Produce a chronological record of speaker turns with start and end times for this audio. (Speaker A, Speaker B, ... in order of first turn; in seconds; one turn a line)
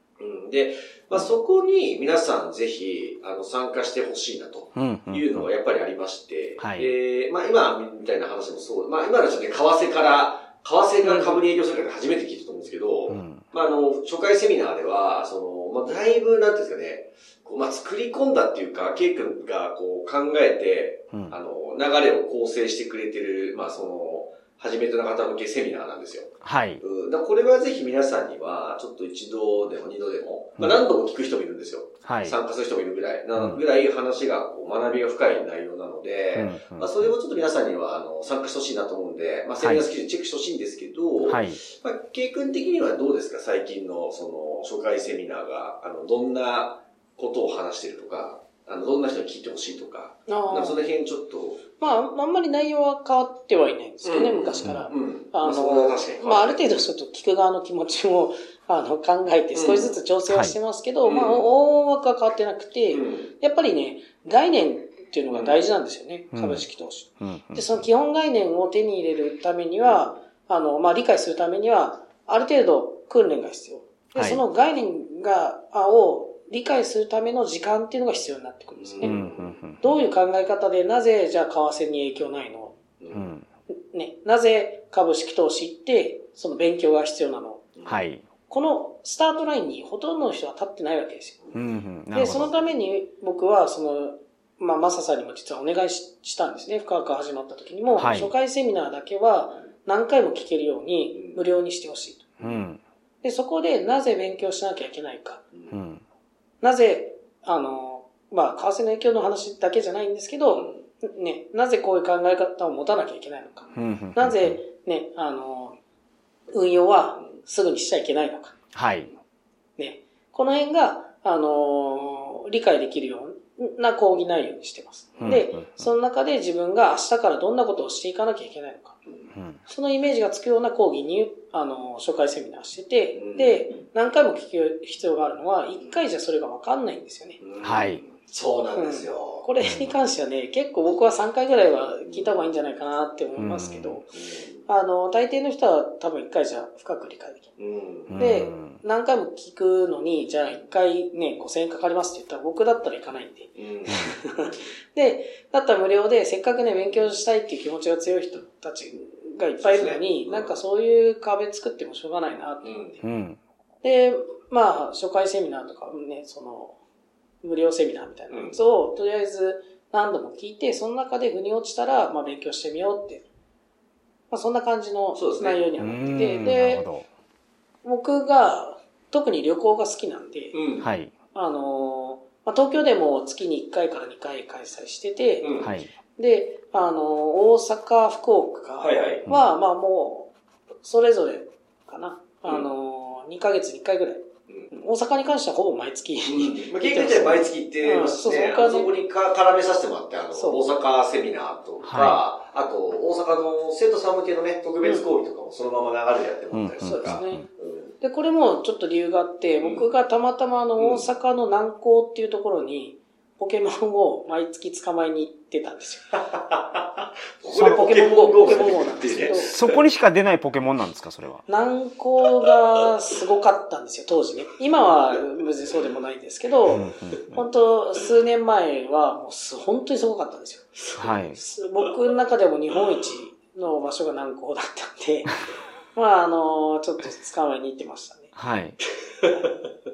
Speaker A: 0.2-51.8
Speaker B: 4.8-5.5
Speaker B: 6.6-6.9
Speaker B: 11.0-11.4
Speaker B: 13.1-13.4
Speaker B: 21.1-21.4
Speaker B: 26.4-26.8
Speaker B: 32.0-32.4
Speaker B: 33.4-33.6
Speaker B: 36.3-37.1
Speaker B: 39.6-39.9
Speaker B: 41.2-41.6
Speaker C: 50.3-50.8
Speaker C: 51.8-79.2
Speaker A: 54.0-56.6
Speaker A: 59.5-60.0
Speaker B: 60.3-60.6
Speaker A: 61.0-61.5
Speaker A: 62.9-63.3
Speaker A: 65.3-65.6
Speaker B: 66.3-66.7
Speaker B: 67.2-67.7
Speaker A: 69.9-70.1
Speaker B: 74.2-74.4
Speaker A: 78.8-79.6
Speaker B: 79.0-80.0
Speaker C: 79.8-82.8
Speaker A: 83.0-83.3
Speaker B: 83.1-83.5
Speaker C: 83.9-87.7
Speaker A: 87.8-88.0
Speaker B: 87.9-88.2
Speaker C: 88.5-91.4
Speaker B: 91.5-92.6
Speaker C: 92.1-102.3
Speaker B: 97.9-98.3
Speaker A: 101.1-101.4
Speaker B: 102.4-102.8
Speaker C: 103.2-105.4
Speaker A: 105.5-105.8
Speaker B: 105.7-106.0
Speaker C: 106.6-115.8
Speaker A: 110.5-110.8
Speaker B: 113.8-114.6
Speaker C: 116.5-118.5
Speaker B: 118.7-119.1
Speaker C: 119.8-129.0
Speaker B: 125.2-125.8
Speaker A: 129.1-129.3
Speaker B: 129.3-129.6
Speaker C: 129.7-137.4
Speaker A: 133.2-133.7
Speaker A: 137.4-139.5
Speaker B: 137.6-138.0
Speaker C: 138.8-144.2
Speaker B: 139.6-139.9
Speaker A: 142.1-142.4
Speaker B: 143.4-144.0
Speaker A: 144.1-144.7
Speaker C: 144.7-147.5
Speaker A: 147.6-148.3
Speaker B: 148.1-148.8
Speaker C: 148.2-163.0
Speaker A: 153.6-154.7
Speaker A: 159.6-160.5
Speaker A: 162.6-163.0
Speaker B: 163.0-163.4
Speaker C: 163.8-166.8
Speaker C: 167.4-173.2
Speaker A: 168.3-168.6
Speaker C: 174.3-176.9
Speaker A: 175.2-175.6
Speaker B: 175.8-177.1
Speaker C: 177.8-180.6
Speaker A: 180.5-180.9
Speaker B: 180.8-181.1
Speaker C: 181.3-190.3
Speaker A: 185.4-185.7
Speaker B: 185.6-185.9
Speaker A: 188.8-189.3
Speaker B: 189.3-189.5
Speaker C: 190.8-198.9
Speaker A: 196.3-208.0
Speaker C: 200.3-200.7
Speaker B: 201.8-202.2
Speaker C: 204.8-205.1
Speaker B: 206.5-207.4
Speaker C: 206.8-207.4
Speaker C: 208.0-216.1
Speaker A: 209.6-209.9
Speaker A: 210.8-211.1
Speaker A: 216.1-219.9
Speaker C: 217.5-219.6
Speaker B: 217.6-221.4
Speaker C: 221.5-230.8
Speaker B: 226.7-227.4
Speaker A: 226.7-227.2
Speaker B: 231.0-231.4
Speaker C: 231.3-235.4
Speaker C: 235.9-238.3
Speaker B: 238.4-238.8
Speaker A: 239.2-239.6